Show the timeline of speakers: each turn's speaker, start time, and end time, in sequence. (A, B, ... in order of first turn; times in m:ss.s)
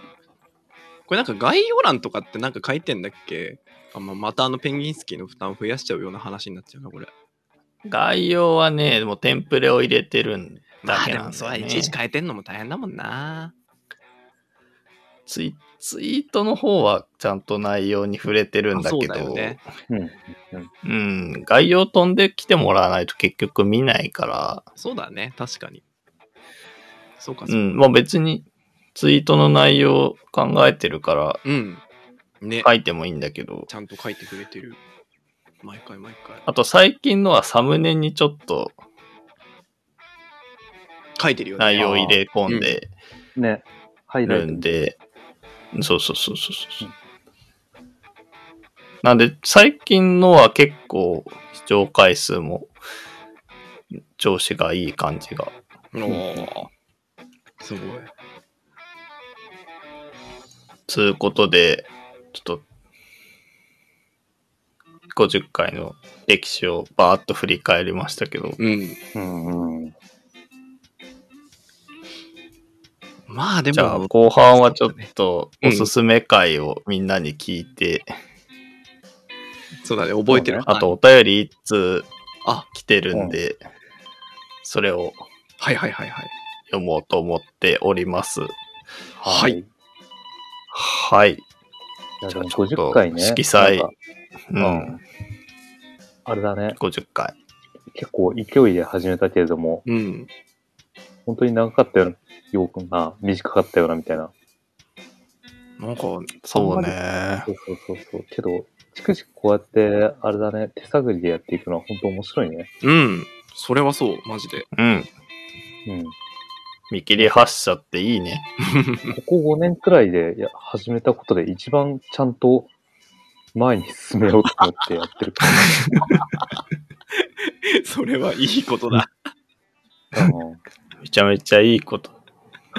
0:01.1-0:07.1 A
0:07.8-0:11.9 B
0:10.8-0:13.5 A
0:15.3-0:19.6 B
0:18.7-0:19.6 A
0:19.9-0:20.7 C
0:20.8-0:24.6 B
0:24.8-0:25.8 A
0:27.2-0:27.7 A
0:27.5-0:31.4 B
0:31.4-0:31.8 A
0:32.4-0:32.7 A
0:32.6-0:33.7 B
0:33.7-0:34.8 A
0:35.6-0:36.4 A
0:36.4-0:38.8 B
0:41.2-0:42.8 A
0:41.6-0:42.9 B
0:41.8-0:42.2 C
0:43.4-0:44.7 C
0:44.2-0:45.0 B
0:45.7-0:46.9 B
0:49.0-0:52.7 B
0:54.1-0:55.5 B
0:55.9-0:56.7 A
0:56.1-0:56.5 C
0:57.6-0:58.1 A
1:00.9-1:02.6 B
1:05.1-1:08.6 B
1:08.6-1:09.0 A
1:09.1-1:09.9 C
1:13.3-1:14.1 A
1:13.7-1:18.1 B
1:14.6-1:15.1 A
1:15.6-1:15.9 A
1:19.8-1:20.9 A
1:20.3-1:20.6 C
1:20.6-1:22.1 B
1:22.7-1:23.6 B
1:23.1-1:23.4 C
1:24.6-1:25.2 B
1:25.6-1:26.3 A
1:26.7-1:28.5 B
1:29.2-1:29.7 C
1:29.3-1:29.6 A
1:30.7-1:31.4 B
1:32.2-1:33.9 C
1:32.3-1:33.9 B
1:34.5-1:35.0 B
1:34.6-1:35.0 C
1:36.2-1:36.8 C
1:36.8-1:37.3 B
1:37.9-1:39.8 C
1:39.8-1:40.3 A
1:41.2-1:44.3 C
1:45.8-1:46.4 A
1:46.4-1:47.5 B
1:46.5-1:52.7 C
1:52.8-1:54.7 A
1:54.7-1:55.1 B
1:55.8-1:56.2 C
1:56.9-1:58.5 B
1:57.2-1:57.4 C
1:58.6-1:59.2 A
1:59.1-2:02.7 C
2:03.5-2:06.2 C
2:07.2-2:09.1 A
2:10.1-2:10.6 C
2:11.0-2:12.2 B